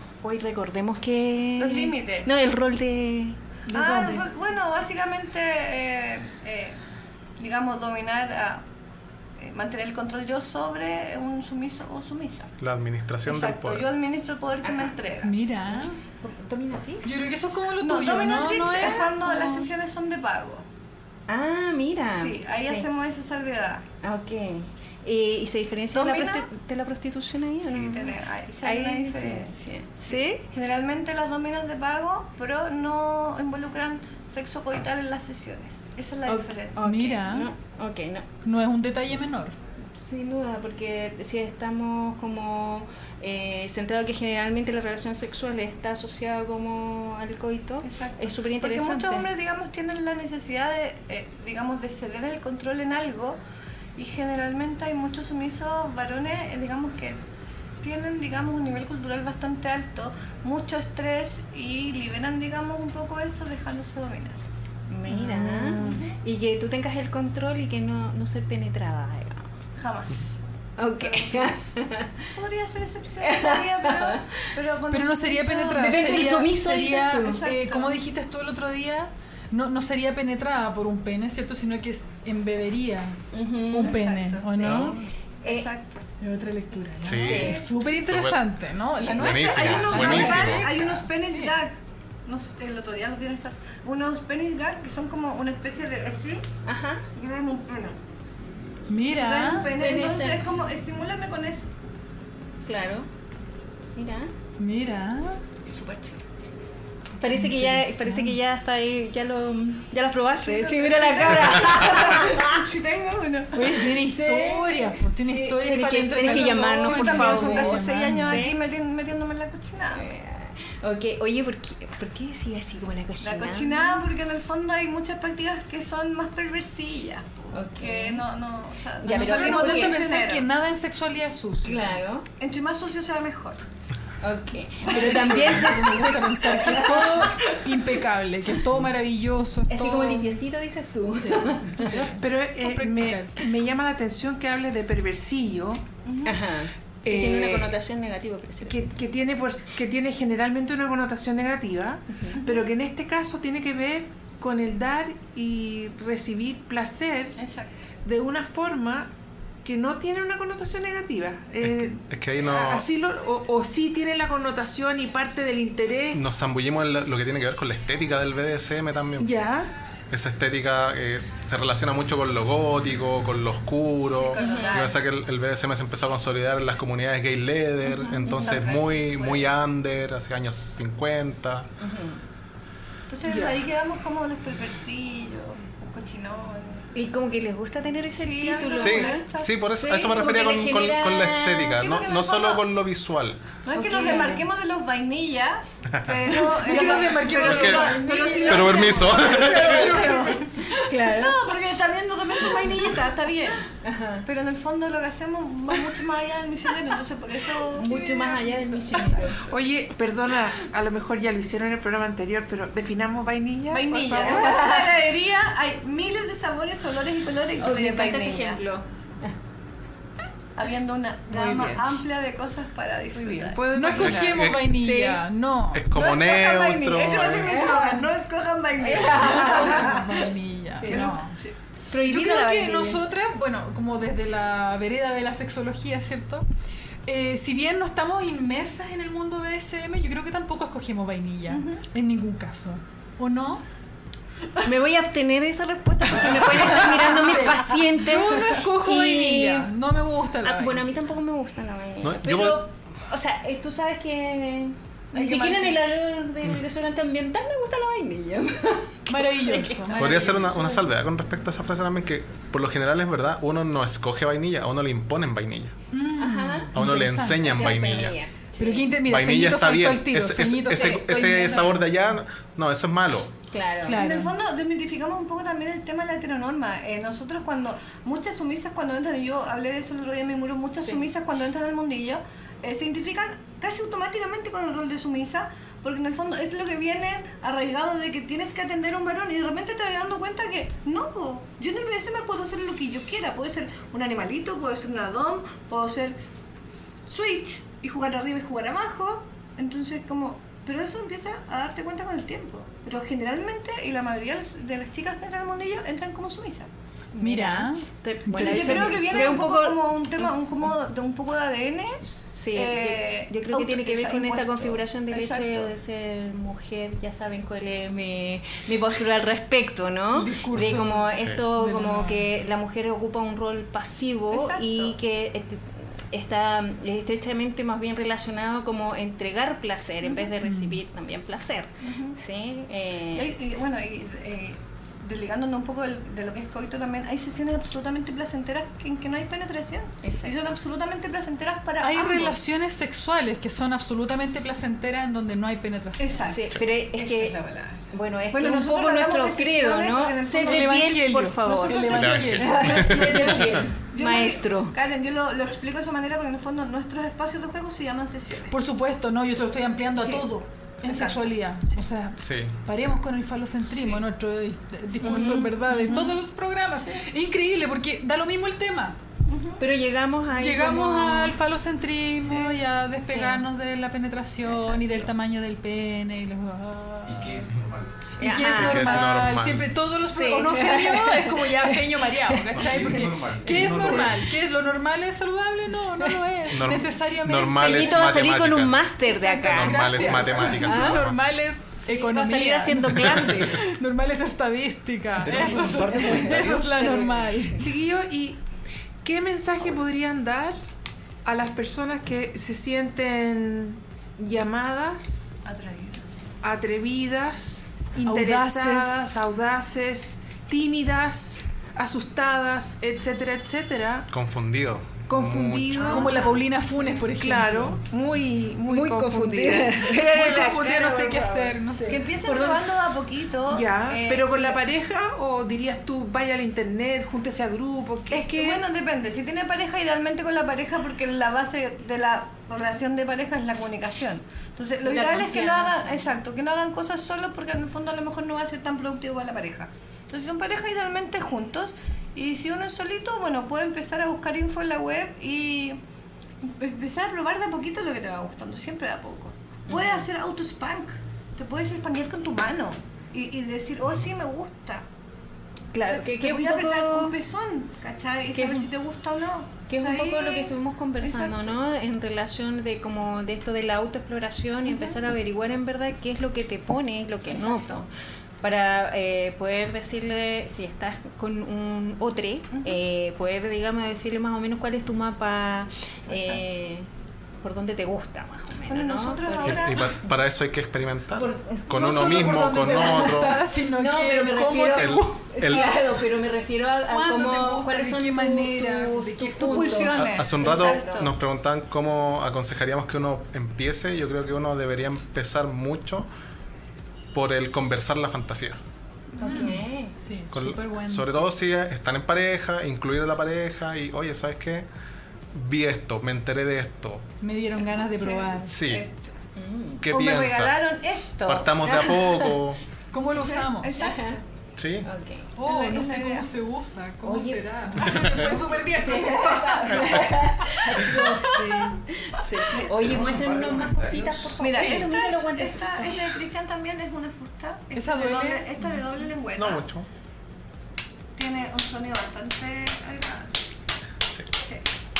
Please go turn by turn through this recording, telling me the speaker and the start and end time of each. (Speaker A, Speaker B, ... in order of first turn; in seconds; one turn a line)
Speaker A: 0.2-3.4
Speaker B: 1.6-2.3
Speaker B: 3.7-6.8
Speaker C: 3.8-4.2
Speaker B: 7.4-8.6
Speaker B: 9.4-12.5
Speaker D: 12.6-13.9
Speaker B: 13.2-15.3
Speaker A: 14.6-14.9
Speaker E: 15.2-16.0
Speaker A: 16.2-17.1
Speaker E: 17.0-19.7
Speaker B: 17.8-20.6
Speaker A: 21.3-22.9
Speaker B: 22.1-23.8
Speaker A: 24.0-30.4
Speaker B: 25.9-26.5
Speaker B: 27.6-36.9
Speaker A: 36.2-38.2
Speaker E: 36.8-37.5
Speaker E: 38.4-39.5
Speaker A: 39.9-49.3
Speaker B: 47.8-53.4
Speaker B: 54.0-57.2
Speaker B: 57.8-64.4
Speaker A: 64.9-69.5
Speaker E: 65.1-66.0
Speaker B: 65.8-66.1
Speaker B: 69.8-70.3
Speaker A: 70.8-72.2
Speaker B: 71.0-71.8
Speaker B: 72.3-78.0
Speaker A: 73.2-74.4
Speaker E: 74.9-83.2
Speaker A: 75.8-77.3
Speaker A: 83.3-84.0
Speaker E: 83.7-85.0
Speaker B: 83.8-86.0
Speaker A: 84.6-85.7
Speaker E: 86.2-91.5
Speaker D: 87.0-88.5
Speaker B: 87.1-87.7
Speaker A: 87.2-87.6
Speaker B: 89.1-91.7
Speaker D: 89.1-90.7
Speaker A: 89.2-90.3
Speaker B: 92.2-96.5
Speaker A: 96.6-97.0
Speaker B: 97.1-98.0
Speaker E: 98.9-99.7
Speaker B: 99.1-101.7
Speaker A: 99.7-100.5
Speaker A: 102.7-103.1
Speaker A: 104.0-104.3
Speaker E: 104.6-105.4
Speaker B: 105.7-106.2
Speaker A: 107.2-112.6
Speaker E: 107.3-108.3
Speaker B: 110.3-113.8
Speaker E: 113.5-118.4
Speaker A: 114.0-118.6
Speaker B: 116.2-120.1
Speaker A: 119.9-124.0
Speaker B: 123.2-130.5
Speaker A: 127.5-128.2
Speaker A: 129.0-130.0
Speaker E: 129.1-131.9
Speaker A: 131.6-132.2
Speaker B: 132.4-133.6
Speaker A: 134.2-137.6
Speaker B: 134.8-137.1
Speaker E: 134.8-140.4
Speaker A: 139.7-142.1
Speaker E: 141.1-143.4
Speaker C: 141.9-145.8
Speaker B: 146.1-146.4
Speaker A: 146.2-148.9
Speaker C: 147.0-147.7
Speaker C: 148.6-157.3
Speaker A: 152.1-152.4
Speaker B: 152.3-152.6
Speaker B: 157.4-157.7
Speaker C: 158.0-159.1
Speaker C: 159.6-166.2
Speaker D: 161.6-162.9
Speaker D: 166.1-169.3
Speaker C: 169.2-169.7
Speaker D: 170.1-181.7
Speaker B: 174.1-175.0
Speaker A: 174.4-174.9
Speaker A: 177.9-178.6
Speaker B: 178.2-179.5
Speaker A: 181.8-182.2
Speaker B: 183.1-186.9
Speaker C: 183.3-183.6
Speaker A: 186.9-189.2
Speaker B: 188.1-190.1
Speaker D: 188.7-193.5
Speaker A: 189.8-191.8
Speaker B: 191.7-192.6
Speaker B: 193.6-200.4
Speaker A: 193.7-194.4
Speaker D: 195.9-196.2
Speaker E: 196.3-198.4
Speaker A: 196.8-201.5
Speaker D: 197.4-197.9
Speaker D: 198.4-199.9
Speaker E: 199.5-200.9
Speaker C: 199.7-200.2
Speaker B: 201.0-203.6
Speaker A: 203.8-204.2
Speaker B: 204.2-209.5
Speaker A: 207.7-209.4
Speaker C: 209.4-214.5
Speaker B: 213.7-218.6
Speaker A: 214.2-215.0
Speaker A: 217.6-219.3
Speaker B: 220.6-223.6
Speaker C: 221.3-222.0
Speaker C: 223.1-224.5
Speaker E: 223.7-225.8
Speaker D: 224.0-224.8
Speaker A: 224.7-225.2
Speaker D: 225.7-227.7
Speaker B: 225.9-230.2
Speaker A: 227.4-228.0
Speaker A: 228.8-230.1
Speaker E: 228.9-231.3
Speaker A: 230.8-231.1
Speaker B: 230.8-231.5
Speaker A: 231.9-233.0
Speaker E: 232.0-236.4
Speaker E: 237.1-243.6
Speaker B: 241.5-241.8
Speaker A: 244.6-249.7
Speaker E: 246.2-250.9
Speaker A: 250.4-260.5
Speaker D: 252.0-252.6
Speaker B: 255.1-255.8
Speaker E: 259.1-260.4
Speaker D: 259.9-265.7
Speaker E: 265.9-267.8
Speaker A: 266.2-266.7
Speaker D: 266.7-268.2
Speaker A: 267.4-268.9
Speaker E: 268.6-271.9
Speaker D: 269.0-273.3
Speaker A: 273.5-274.0
Speaker E: 273.8-274.3
Speaker B: 273.9-296.1
Speaker A: 280.8-281.1
Speaker B: 297.1-306.7
Speaker A: 307.1-310.3
Speaker E: 307.2-309.4
Speaker B: 308.3-315.7
Speaker A: 312.1-333.3
Speaker E: 320.1-322.2
Speaker D: 320.6-321.4
Speaker B: 324.3-324.9
Speaker B: 330.0-330.3
Speaker E: 330.4-330.8
Speaker B: 331.8-332.1
Speaker B: 333.1-342.4
Speaker A: 340.0-340.4
Speaker E: 341.8-346.2
Speaker B: 346.0-351.0
Speaker A: 346.3-347.4
Speaker A: 347.9-354.7
Speaker E: 350.3-352.6
Speaker B: 351.7-352.1
Speaker D: 351.9-353.7
Speaker B: 352.7-358.6
Speaker E: 358.5-369.0
Speaker B: 360.0-360.2
Speaker B: 360.8-361.3
Speaker D: 362.2-362.6
Speaker B: 363.7-364.0
Speaker A: 365.0-366.1
Speaker B: 365.0-366.1
Speaker B: 369.3-369.6
Speaker A: 369.6-371.4
Speaker E: 370.4-377.5
Speaker B: 372.2-372.6
Speaker A: 373.0-373.4
Speaker B: 374.5-375.0
Speaker F: 377.0-377.9
Speaker E: 378.2-388.1
Speaker A: 378.2-379.1
Speaker D: 378.5-379.7
Speaker A: 380.0-382.1
Speaker F: 382.5-384.3
Speaker D: 386.5-391.4
Speaker A: 387.6-391.0
Speaker E: 389.1-397.6
Speaker A: 391.8-393.6
Speaker F: 395.2-396.9
Speaker A: 395.2-397.6
Speaker C: 397.6-398.4
Speaker C: 399.0-400.6
Speaker C: 401.2-405.3
Speaker B: 405.4-406.2
Speaker C: 406.4-414.1
Speaker E: 408.0-409.2
Speaker D: 414.1-416.0
Speaker C: 415.1-416.2
Speaker B: 415.8-416.4
Speaker E: 415.8-417.8
Speaker C: 417.1-419.8
Speaker A: 418.7-422.6
Speaker E: 419.7-421.9
Speaker B: 421.8-424.6
Speaker C: 423.5-428.6
Speaker B: 428.1-445.8
Speaker A: 434.8-436.2
Speaker B: 446.4-454.8
Speaker A: 449.7-450.1
Speaker A: 455.7-457.1
Speaker B: 455.9-461.6
Speaker A: 458.3-458.7
Speaker A: 459.7-467.9
Speaker B: 464.6-465.0
Speaker B: 467.3-467.9
Speaker A: 468.4-476.9
Speaker B: 472.5-472.8
Speaker B: 476.1-476.4
Speaker A: 477.4-480.0
Speaker B: 478.7-479.9
Speaker D: 479.4-483.4
Speaker A: 481.1-491.1
Speaker E: 481.7-485.6
Speaker D: 484.7-485.7
Speaker E: 486.9-489.9
Speaker B: 489.4-491.1
Speaker D: 489.9-496.1
Speaker D: 497.1-498.6
Speaker A: 499.2-499.9
Speaker E: 499.2-501.2
Speaker D: 500.3-504.6
Speaker D: 505.3-507.1
Speaker E: 507.2-508.5
Speaker B: 507.6-509.1
Speaker D: 508.4-508.9
Speaker A: 509.4-509.9
Speaker D: 509.8-510.7
Speaker B: 509.9-511.5
Speaker D: 511.2-512.6
Speaker A: 511.6-512.4
Speaker E: 512.9-513.8
Speaker B: 513.5-514.2
Speaker A: 513.8-514.2
Speaker D: 514.6-514.9
Speaker A: 514.8-515.3
Speaker E: 515.4-521.8
Speaker B: 515.4-516.3
Speaker A: 517.0-518.0
Speaker D: 517.8-518.4
Speaker A: 518.7-521.3
Speaker D: 519.7-520.2
Speaker B: 521.0-521.6
Speaker A: 521.9-526.1
Speaker B: 522.4-522.7
Speaker F: 522.8-524.4
Speaker B: 524.4-529.6
Speaker E: 527.7-528.8
Speaker D: 529.3-529.9
Speaker B: 531.1-533.3
Speaker B: 534.4-534.6